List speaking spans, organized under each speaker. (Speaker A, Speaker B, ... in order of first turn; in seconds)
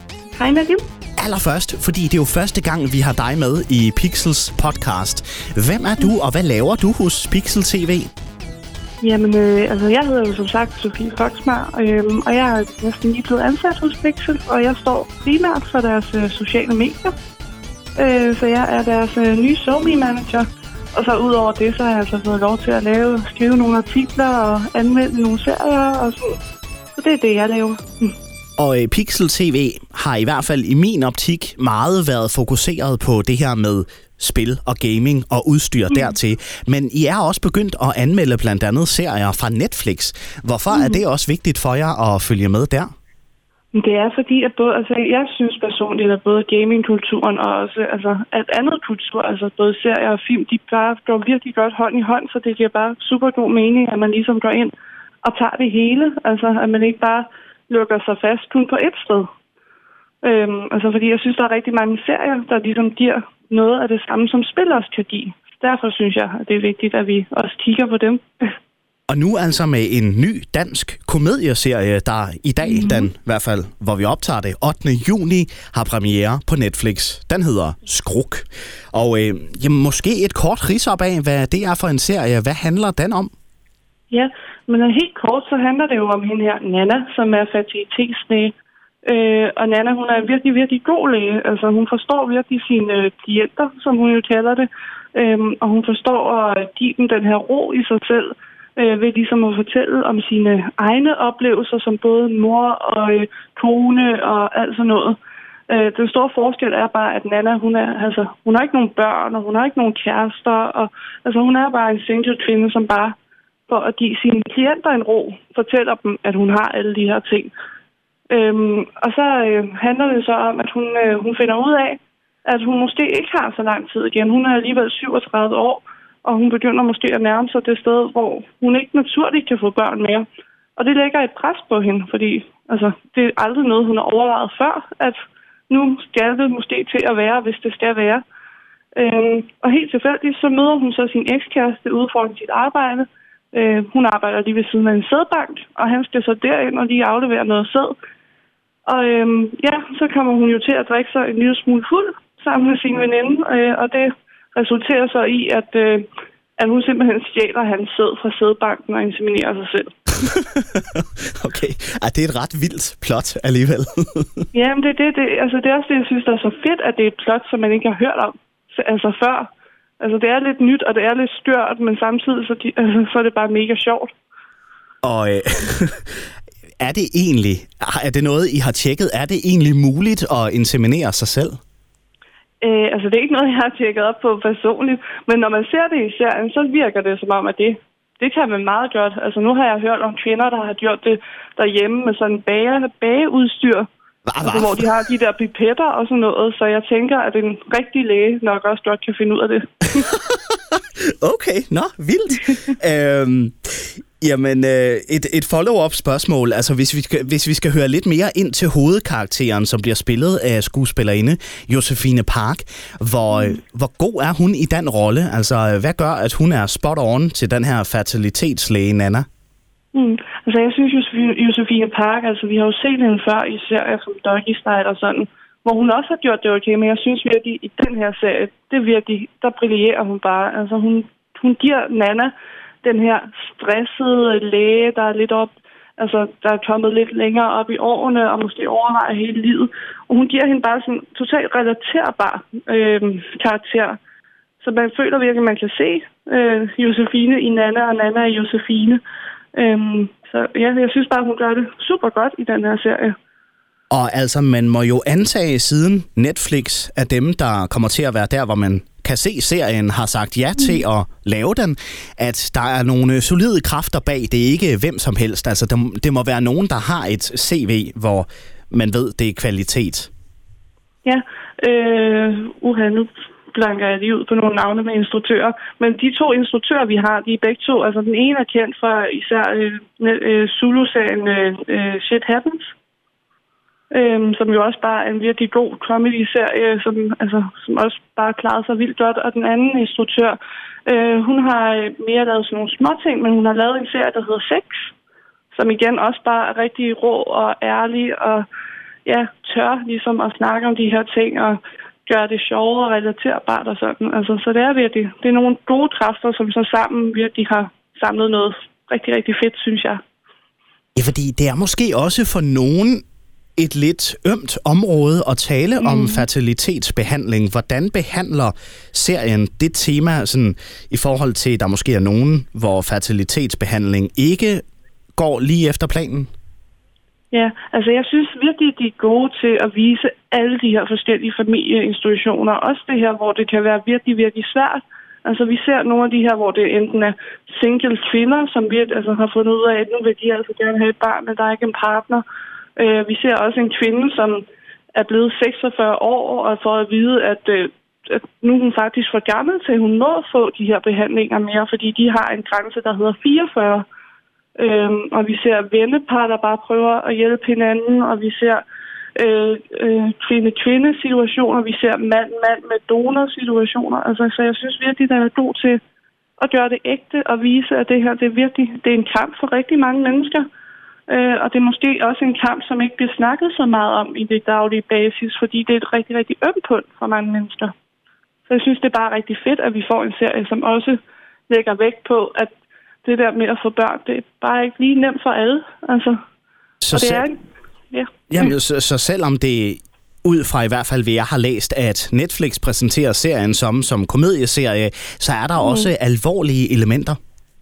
Speaker A: 0.3-0.8, 9.0-17.1, 17.9-26.4, 27.0-28.1, 40.7-41.0, 43.7-59.3, 60.2-68.5, 72.6-73.1, 84.1-88.5, 89.0-105.2, 105.7-113.2, 113.7-117.5, 118.3-130.2, 130.8-135.2, 135.7-138.2, 138.9-147.9, 148.8-156.1, 156.6-160.0, 164.5-169.5, 170.0-174.1, 182.6-193.9, 194.4-200.1, 219.9-244.0, 244.6-249.0, 249.5-253.2, 271.0-282.7, 283.9-294.9, 295.5-298.5, 299.0-310.0, 315.8-316.2, 327.3-342.2, 342.8-353.9, 354.6-358.6, 359.1-365.8, 366.4-370.5, 371.1-377.7, 378.5-382.5, 383.0-386.2, 386.9-387.4, 387.9-388.5, 395.6-395.9
Speaker B: 1.2-8.1, 28.6-42.9, 69.1-83.3, 160.2-164.4, 175.0-176.2, 176.8-181.6, 194.3-194.9, 200.0-219.2, 253.9-270.1, 310.9-313.0, 313.6-324.6, 325.1-326.3, 386.8-387.2, 388.3-397.2